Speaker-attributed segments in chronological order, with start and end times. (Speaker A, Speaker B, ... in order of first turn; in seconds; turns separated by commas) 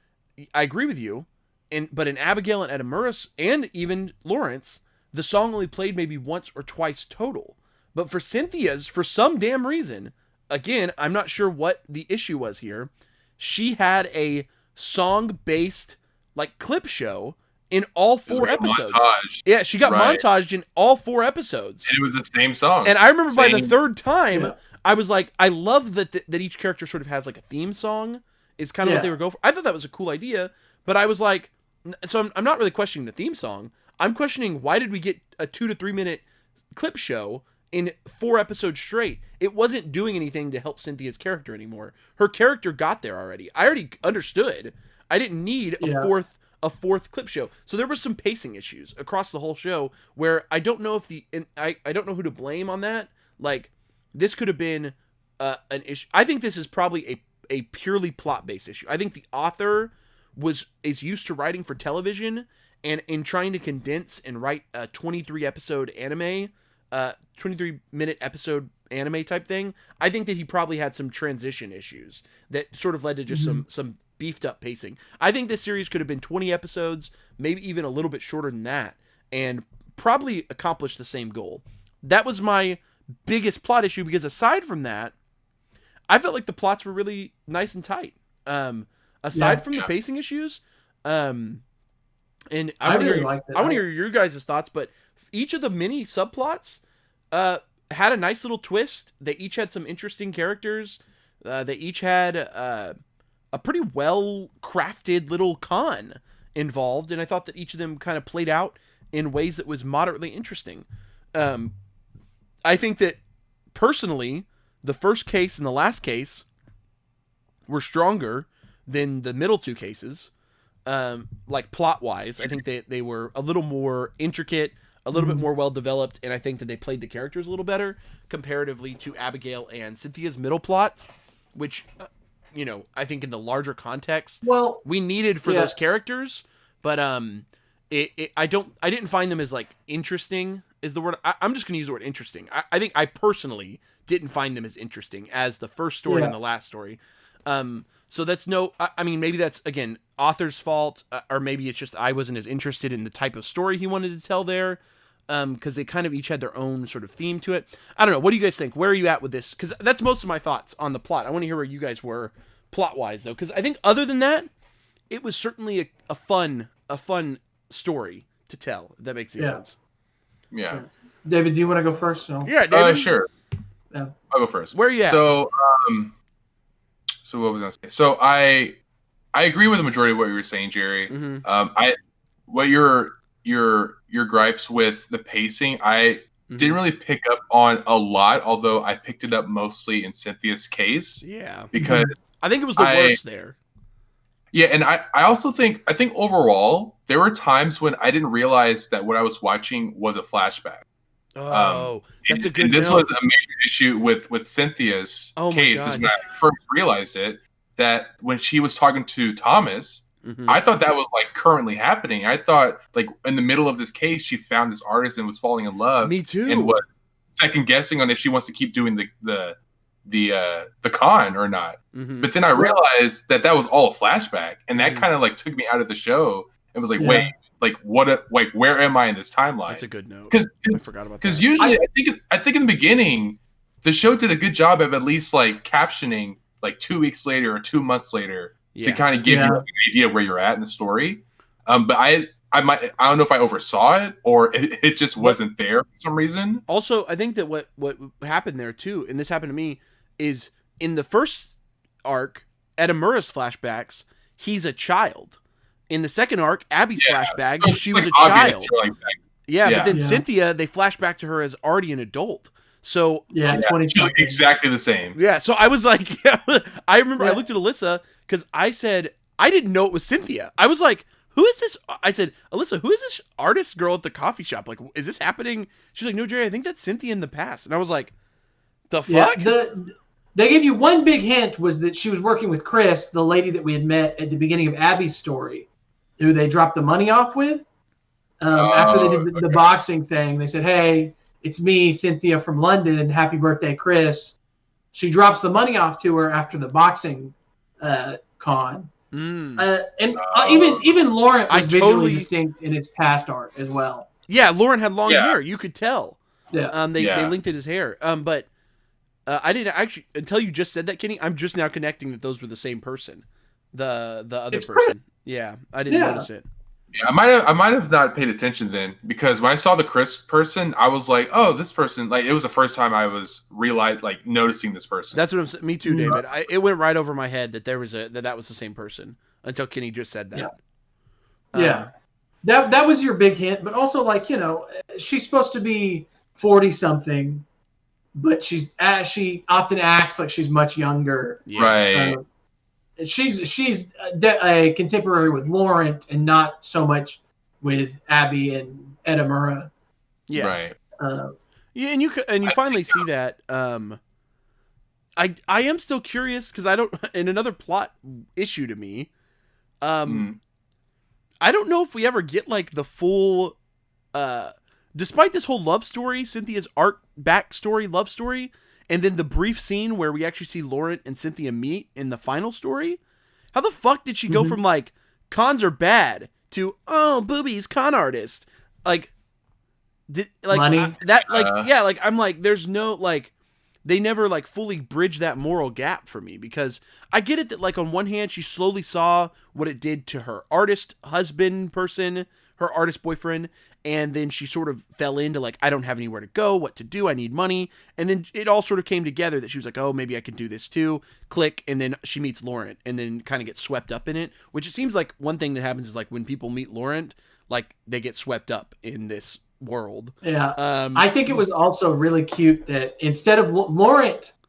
Speaker A: 0.4-21.9, Speaker B: 18.3-20.2, Speaker B: 21.8-23.8, Speaker A: 22.8-85.1, Speaker C: 28.8-29.1, Speaker C: 45.8-46.1, Speaker C: 73.3-73.6, Speaker A: 86.1-91.6, Speaker C: 89.3-89.6, Speaker A: 92.5-96.8, Speaker C: 92.8-93.8, Speaker A: 97.3-102.9, Speaker A: 103.5-111.7, Speaker A: 112.7-113.2, Speaker A: 113.7-116.5, Speaker A: 117.7-120.3, Speaker A: 120.8-164.5, Speaker C: 125.1-125.4, Speaker C: 134.4-134.8, Speaker C: 135.4-135.7, Speaker C: 146.1-146.3, Speaker A: 165.1-169.7, Speaker B: 170.5-170.8, Speaker C: 170.7-172.5, Speaker A: 172.4-173.1, Speaker B: 172.7-173.3, Speaker B: 174.3-176.1, Speaker A: 174.7-175.2, Speaker B: 177.2-178.8, Speaker B: 179.3-181.9, Speaker A: 181.1-181.4, Speaker B: 182.5-192.2, Speaker A: 186.5-186.8, Speaker A: 191.2-193.6, Speaker C: 191.8-192.1, Speaker B: 192.8-193.2, Speaker B: 194.5-200.8, Speaker A: 201.3-203.1, Speaker B: 201.5-246.6, Speaker A: 205.3-206.1, Speaker A: 210.2-210.6, Speaker A: 216.0-216.8, Speaker A: 221.9-222.3, Speaker A: 224.8-225.1, Speaker C: 227.0-227.3, Speaker A: 229.7-231.5, Speaker A: 238.7-239.0, Speaker C: 239.2-239.6, Speaker A: 246.7-255.4, Speaker A: 255.9-258.7, Speaker B: 257.0-259.9, Speaker A: 259.5-263.6, Speaker C: 259.9-260.2, Speaker C: 263.3-264.4, Speaker B: 263.5-265.1, Speaker A: 265.1-278.1, Speaker A: 278.9-279.5, Speaker C: 279.1-285.7, Speaker C: 286.2-287.6, Speaker C: 288.4-294.3, Speaker B: 288.5-289.6, Speaker C: 294.9-298.9, Speaker A: 299.1-299.6, Speaker C: 299.6-304.1, Speaker B: 300.1-300.9, Speaker A: 301.5-302.3, Speaker A: 304.3-306.2, Speaker B: 305.1-305.3, Speaker A: 306.7-308.5, Speaker B: 306.9-307.3, Speaker A: 309.3-316.4, Speaker C: 314.5-314.9, Speaker C: 315.9-316.2, Speaker B: 316.9-325.2, Speaker A: 325.1-330.5, Speaker C: 325.9-326.2, Speaker A: 331.5-331.9, Speaker C: 331.5-331.9, Speaker C: 332.4-337.4, Speaker C: 338.2-342.2, Speaker A: 341.5-341.8, Speaker B: 341.6-342.2, Speaker C: 343.0-349.7, Speaker A: 350.3-350.6, Speaker B: 350.3-350.8, Speaker C: 351.0-351.3, Speaker A: 351.7-354.0, Speaker B: 352.4-353.0, Speaker A: 355.2-359.1, Speaker A: 359.8-360.3, Speaker B: 360.1-360.4, Speaker A: 361.4-363.6, Speaker A: 364.1-373.0, Speaker A: 373.5-379.1, Speaker C: 374.3-374.6, Speaker A: 380.1-383.3, Speaker C: 380.5-381.0, Speaker B: 381.3-381.7, Speaker A: 383.8-411.4, Speaker C: 410.2-414.3